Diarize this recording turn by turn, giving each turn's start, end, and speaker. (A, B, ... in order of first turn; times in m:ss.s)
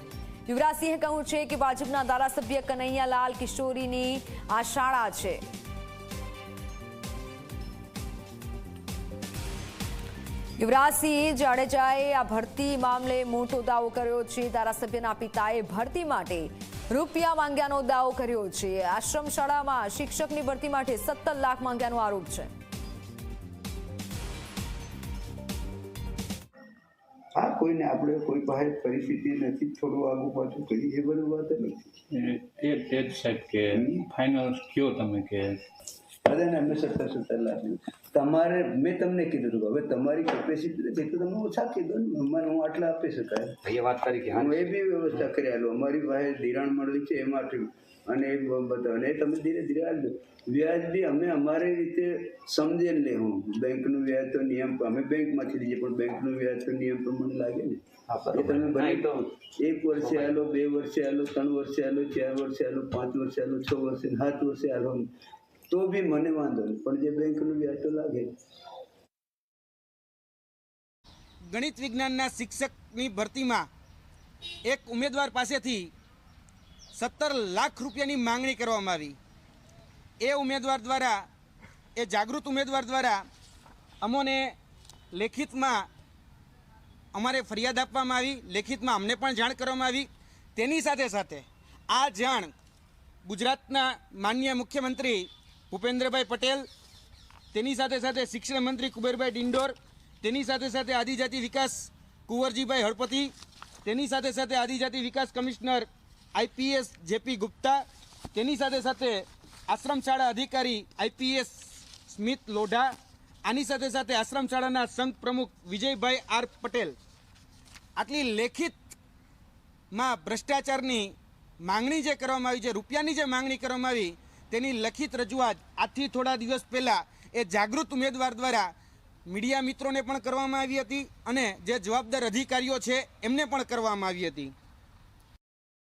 0:00.5-0:05.4 A
0:10.6-0:22.5 A
0:27.3-0:31.9 B
0:32.1-0:35.6 C
0:33.7-0:34.0 B
0:36.2-0:43.6 B
0:43.6-0:44.7 D
0:44.3-1:05.1 B
0:58.1-0:59.2 D
1:00.0-1:00.4 D
1:05.7-1:08.3 B
1:11.5-1:13.7 E
1:14.6-1:15.9 E
1:16.9-1:19.2 E
1:20.2-1:21.2 E
1:22.0-1:23.2 E
1:24.0-1:24.6 E
1:25.1-1:25.9 E
1:27.1-1:32.5 E
1:33.2-1:36.7 E
1:37.5-1:43.3 E
1:43.8-1:57.0 E
1:58.0-1:58.9 E
1:59.9-2:08.7 E
2:09.3-2:14.5 E